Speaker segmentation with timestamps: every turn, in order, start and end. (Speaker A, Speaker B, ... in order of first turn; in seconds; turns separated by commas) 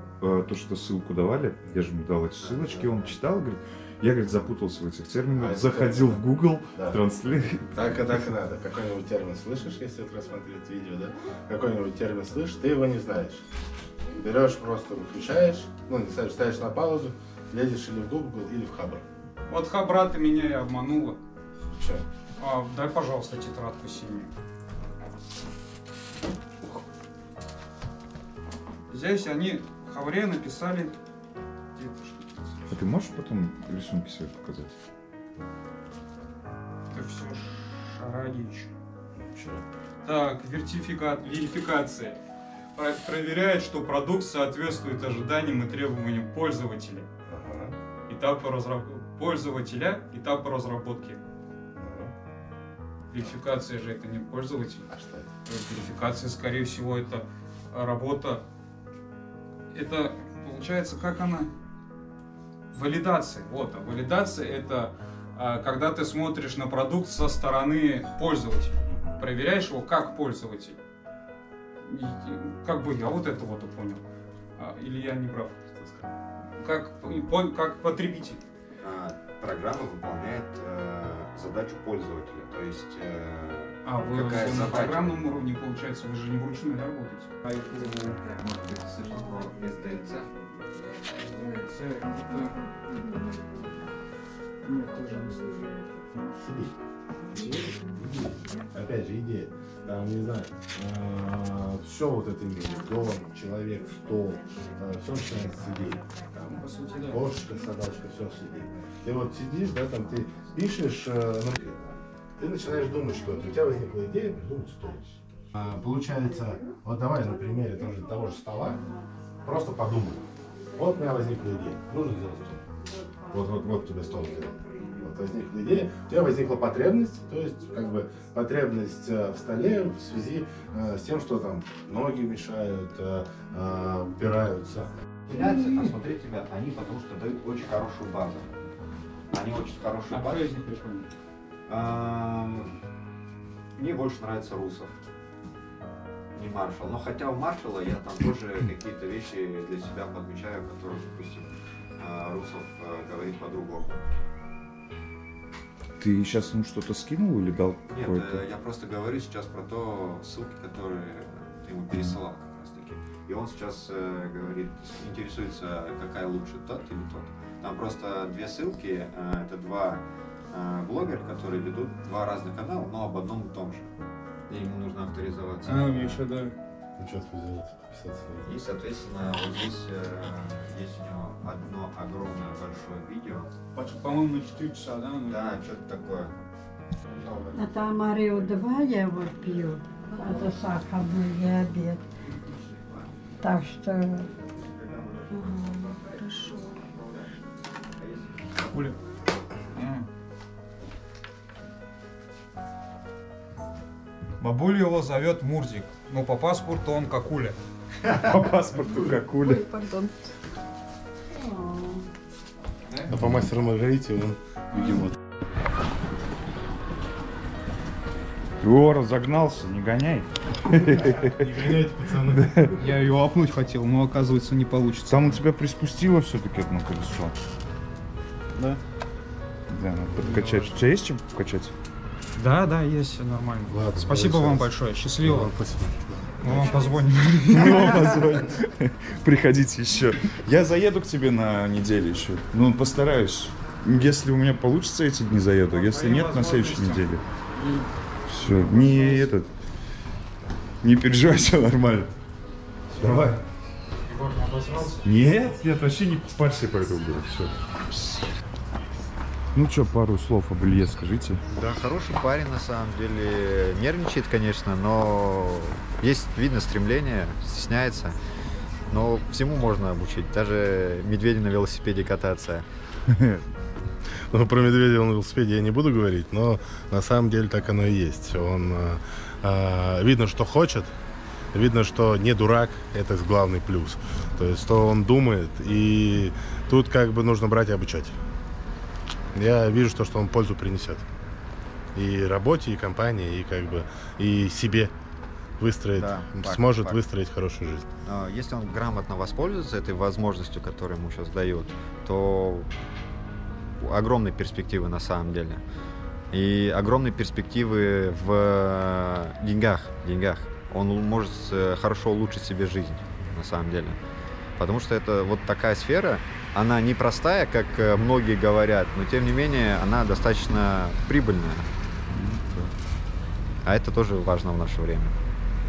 Speaker A: 0.2-8.1, Speaker B: 2.4-3.2, Speaker C: 5.3-7.0, Speaker C: 7.7-13.4, Speaker C: 14.1-19.1, Speaker D: 19.5-21.2, Speaker C: 21.7-22.1, Speaker D: 22.4-24.3, Speaker D: 28.9-30.9, Speaker D: 31.8-32.8, Speaker A: 32.7-34.7, Speaker D: 36.9-38.7, Speaker C: 39.2-39.6, Speaker D: 40.0-42.2, Speaker D: 42.8-47.1, Speaker C: 47.3-47.8, Speaker D: 48.1-51.2, Speaker C: 51.8-52.1, Speaker D: 53.1-54.9, Speaker C: 54.9-55.3, Speaker D: 55.5-58.4, Speaker D: 59.7-61.5, Speaker D: 62.7-70.8, Speaker C: 68.9-69.3, Speaker D: 71.8-74.0, Speaker D: 74.6-75.5, Speaker C: 75.7-76.1, Speaker D: 76.6-78.4, Speaker B: 78.8-85.2, Speaker D: 83.8-88.2, Speaker B: 88.2-90.3, Speaker D: 91.0-93.1, Speaker D: 94.6-95.7, Speaker C: 96.1-96.7, Speaker D: 97.3-98.2, Speaker C: 98.2-111.8, Speaker D: 106.5-107.3, Speaker C: 112.4-118.8, Speaker C: 119.4-122.7, Speaker C: 123.3-134.9, Speaker B: 135.3-138.5, Speaker B: 139.3-140.5, Speaker D: 140.1-141.1, Speaker B: 141.7-142.7, Speaker B: 143.8-144.9, Speaker B: 146.3-154.0, Speaker A: 156.0-158.4, Speaker B: 157.9-173.9, Speaker B: 174.5-176.2, Speaker D: 175.6-176.6, Speaker C: 177.0-178.5, Speaker B: 178.4-183.5, Speaker D: 183.7-185.6, Speaker B: 185.3-186.4, Speaker B: 187.1-187.7, Speaker E: 187.5-192.1, Speaker B: 189.3-189.7, Speaker B: 192.4-193.1, Speaker E: 193.4-194.3, Speaker B: 194.2-197.3, Speaker E: 195.3-195.7, Speaker B: 197.9-198.6, Speaker D: 198.6-199.0, Speaker D: 199.7-200.1, Speaker D: 204.4-207.6, Speaker A: 208.1-209.7, Speaker E: 209.7-210.1, Speaker E: 211.3-212.0, Speaker C: 213.1-215.1, Speaker D: 214.7-215.0, Speaker A: 218.6-221.3, Speaker C: 221.0-222.8, Speaker D: 222.7-225.4, Speaker A: 225.1-227.3, Speaker A: 229.7-231.7, Speaker C: 230.2-230.8, Speaker D: 232.4-235.6, Speaker C: 233.7-236.5, Speaker D: 236.4-238.1, Speaker A: 237.5-247.2, Speaker D: 245.7-247.9, Speaker A: 248.3-249.5, Speaker D: 248.4-249.3, Speaker A: 250.8-252.1, Speaker D: 252.9-253.4, Speaker A: 253.0-253.4, Speaker D: 254.1-255.1, Speaker A: 255.0-258.3, Speaker A: 259.5-261.4, Speaker B: 261.5-268.2, Speaker B: 268.9-272.6, Speaker A: 273.1-273.4, Speaker C: 274.3-280.9, Speaker C: 281.5-288.2, Speaker C: 289.3-291.1, Speaker C: 291.9-294.9, Speaker C: 295.6-297.9, Speaker B: 295.9-297.0, Speaker B: 298.0-302.7, Speaker B: 303.8-305.6, Speaker B: 306.3-314.0, Speaker B: 314.6-321.7, Speaker A: 322.1-322.7, Speaker B: 323.6-325.2